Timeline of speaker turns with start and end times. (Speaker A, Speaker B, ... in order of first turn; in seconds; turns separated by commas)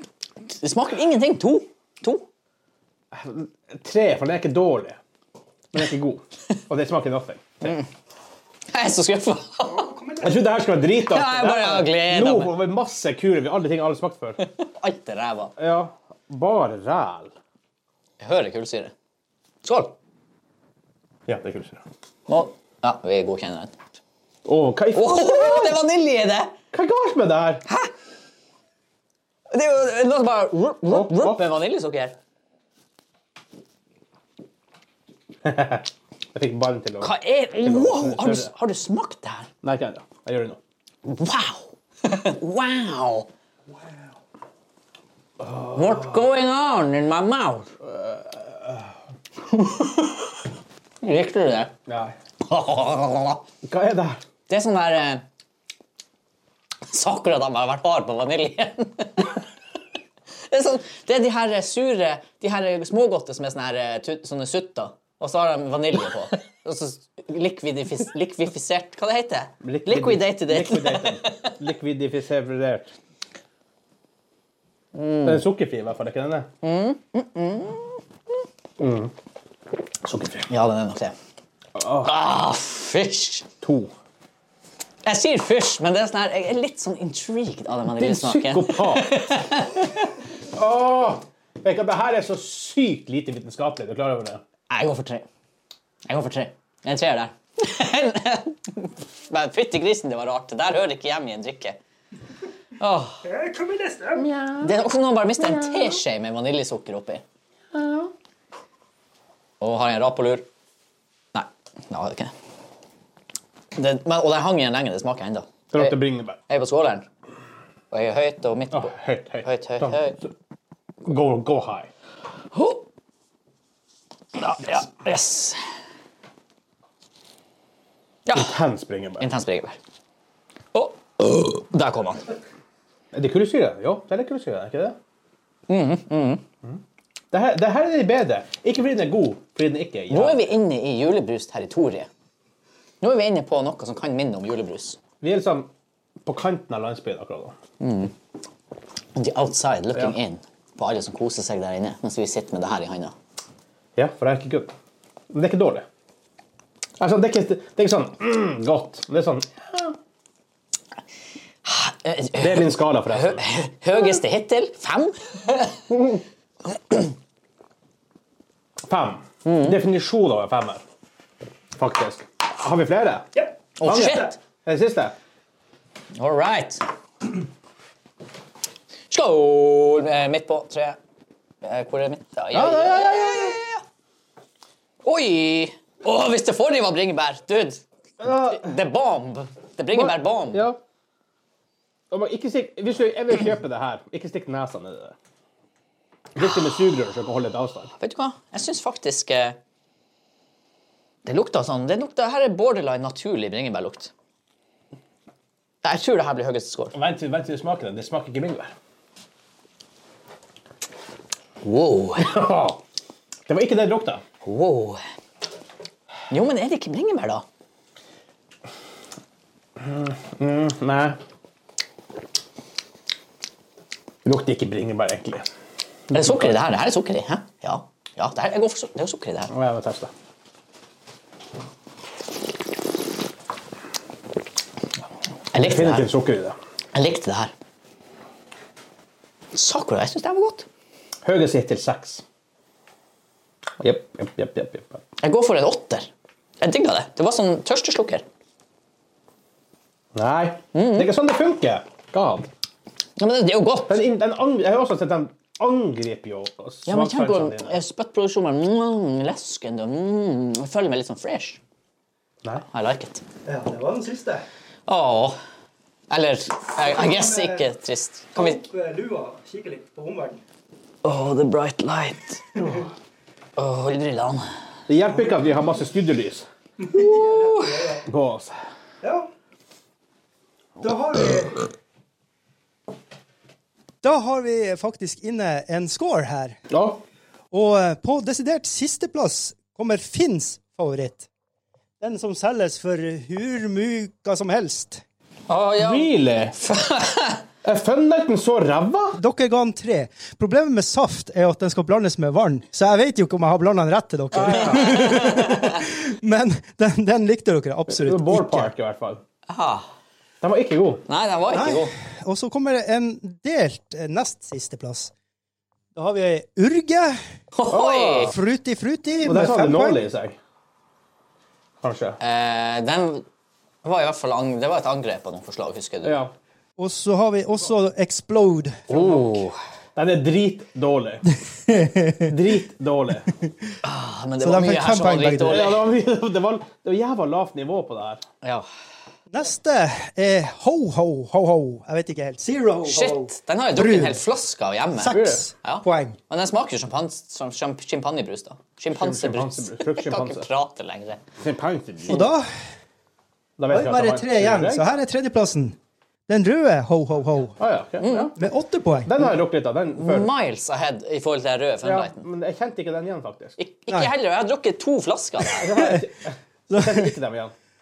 Speaker A: 0.5-2.2, Speaker B: 3.1-5.0, Speaker B: 5.7-7.7, Speaker A: 8.7-10.2, Speaker B: 10.2-14.4, Speaker A: 10.9-12.5, Speaker A: 14.4-15.5, Speaker B: 15.6-17.3, Speaker A: 18.2-18.9, Speaker A: 19.6-19.9, Speaker B: 21.3-21.8, Speaker A: 22.3-23.7, Speaker B: 24.4-25.8, Speaker A: 24.9-26.5, Speaker B: 26.7-27.6, Speaker A: 29.5-32.1, Speaker B: 30.9-31.4, Speaker B: 35.4-38.5, Speaker A: 37.0-39.5, Speaker B: 39.6-40.6, Speaker A: 41.0-43.3, Speaker B: 45.4-45.8, Speaker A: 45.7-47.7, Speaker B: 47.8-48.8, Speaker A: 49.5-50.0, Speaker A: 51.0-51.7, Speaker B: 51.9-52.1, Speaker A: 52.4-53.4, Speaker B: 53.6-54.2, Speaker A: 54.5-55.2, Speaker A: 56.9-59.4, Speaker A: 60.5-71.5, Speaker B: 69.6-72.9, Speaker A: 74.9-75.4, Speaker B: 75.2-76.5, Speaker A: 76.6-78.0, Speaker B: 78.8-79.1, Speaker B: 80.0-80.5, Speaker A: 80.5-81.1, Speaker B: 81.8-82.1, Speaker A: 82.0-83.5, Speaker B: 83.6-83.9, Speaker A: 85.0-90.1, Speaker B: 87.9-89.2, Speaker B: 90.5-94.4, Speaker A: 94.7-95.2, Speaker A: 96.1-101.8, Speaker A: 102.8-103.4, Speaker B: 104.2-104.5, Speaker A: 104.6-107.2, Speaker B: 107.8-108.0, Speaker A: 109.6-110.5, Speaker A: 111.3-112.3, Speaker A: 113.8-117.1, Speaker B: 115.7-116.4, Speaker A: 117.9-120.2, Speaker B: 118.7-120.3, Speaker B: 121.0-121.9, Speaker A: 122.5-122.8, Speaker A: 124.3-125.6, Speaker A: 128.3-128.6, Speaker B: 128.3-129.3, Speaker A: 129.2-129.8, Speaker A: 130.7-132.3, Speaker B: 133.1-135.0, Speaker A: 135.7-136.4, Speaker B: 137.3-140.5, Speaker A: 140.1-142.1, Speaker A: 143.0-145.0, Speaker B: 145.2-145.7, Speaker B: 146.2-147.5, Speaker A: 147.8-148.1, Speaker A: 149.2-153.1, Speaker B: 153.9-154.7, Speaker B: 155.3-155.8, Speaker B: 157.0-159.9, Speaker A: 161.7-165.9, Speaker B: 162.4-163.4, Speaker B: 165.9-166.2, Speaker B: 168.9-170.8, Speaker A: 169.4-169.8, Speaker B: 171.8-175.1, Speaker A: 173.8-174.4, Speaker A: 176.1-176.8, Speaker A: 179.1-181.0, Speaker A: 181.6-183.8, Speaker B: 182.5-183.6, Speaker A: 185.0-190.7, Speaker B: 188.2-188.7, Speaker B: 189.9-190.8, Speaker B: 192.1-195.2, Speaker B: 196.3-197.9, Speaker A: 198.0-199.6, Speaker A: 201.2-204.1, Speaker A: 205.8-206.9, Speaker B: 206.9-208.7, Speaker A: 211.6-212.3, Speaker B: 212.2-212.8, Speaker B: 213.5-214.2, Speaker A: 214.4-215.0, Speaker A: 216.3-217.4, Speaker B: 219.8-221.2, Speaker B: 224.2-225.4, Speaker B: 226.1-226.6, Speaker A: 226.1-229.5, Speaker B: 229.5-230.1, Speaker A: 235.5-236.1, Speaker B: 235.6-236.6, Speaker A: 236.9-237.5, Speaker A: 239.5-240.7, Speaker B: 241.2-242.2, Speaker B: 243.8-245.0, Speaker A: 245.2-246.1, Speaker A: 246.6-248.2, Speaker B: 250.1-252.5, Speaker A: 250.7-251.1, Speaker A: 253.2-254.0, Speaker B: 253.9-257.8, Speaker A: 256.9-261.6, Speaker A: 262.7-263.2, Speaker C: 263.4-264.4, Speaker A: 264.9-265.4, Speaker A: 266.1-268.6, Speaker C: 266.8-267.6, Speaker C: 268.3-270.4, Speaker A: 271.0-272.6, Speaker A: 273.6-274.4, Speaker B: 274.9-276.5, Speaker A: 276.9-278.1, Speaker C: 277.0-278.0, Speaker B: 278.0-278.5, Speaker C: 279.0-279.3, Speaker C: 280.8-281.6, Speaker C: 284.0-286.6, Speaker B: 286.7-287.0, Speaker C: 287.5-291.3, Speaker C: 292.0-295.0, Speaker A: 295.5-297.4, Speaker B: 295.8-296.6, Speaker B: 297.6-299.2, Speaker C: 299.2-308.7, Speaker B: 304.3-305.2, Speaker A: 304.7-305.6, Speaker B: 307.9-309.2, Speaker A: 309.5-309.8, Speaker B: 310.4-311.0, Speaker A: 311.1-311.9, Speaker C: 311.5-315.1, Speaker C: 315.9-317.1, Speaker A: 317.5-318.4, Speaker B: 317.7-318.4, Speaker C: 318.3-320.0, Speaker B: 319.2-320.4, Speaker B: 321.8-322.2, Speaker A: 322.2-323.2, Speaker A: 323.8-326.1, Speaker B: 326.0-326.3, Speaker C: 326.8-328.9, Speaker B: 328.9-329.4, Speaker A: 328.9-329.6, Speaker B: 329.9-331.2, Speaker C: 331.6-332.3, Speaker B: 332.2-333.3, Speaker A: 333.8-335.8, Speaker C: 334.4-335.7, Speaker B: 335.4-338.2, Speaker A: 338.4-338.7, Speaker C: 339.3-344.2, Speaker A: 342.9-351.2, Speaker C: 344.9-346.2, Speaker B: 345.1-345.4, Speaker B: 348.9-350.5, Speaker B: 351.4-352.3, Speaker C: 352.1-352.5, Speaker B: 353.6-354.9, Speaker C: 353.7-355.8, Speaker C: 356.3-357.6, Speaker B: 357.6-358.4, Speaker A: 358.0-358.3, Speaker C: 358.3-359.2, Speaker B: 359.0-360.3, Speaker A: 360.0-362.2, Speaker B: 361.8-363.6, Speaker A: 363.6-365.8, Speaker B: 365.5-367.5, Speaker C: 365.6-366.1, Speaker C: 366.7-367.1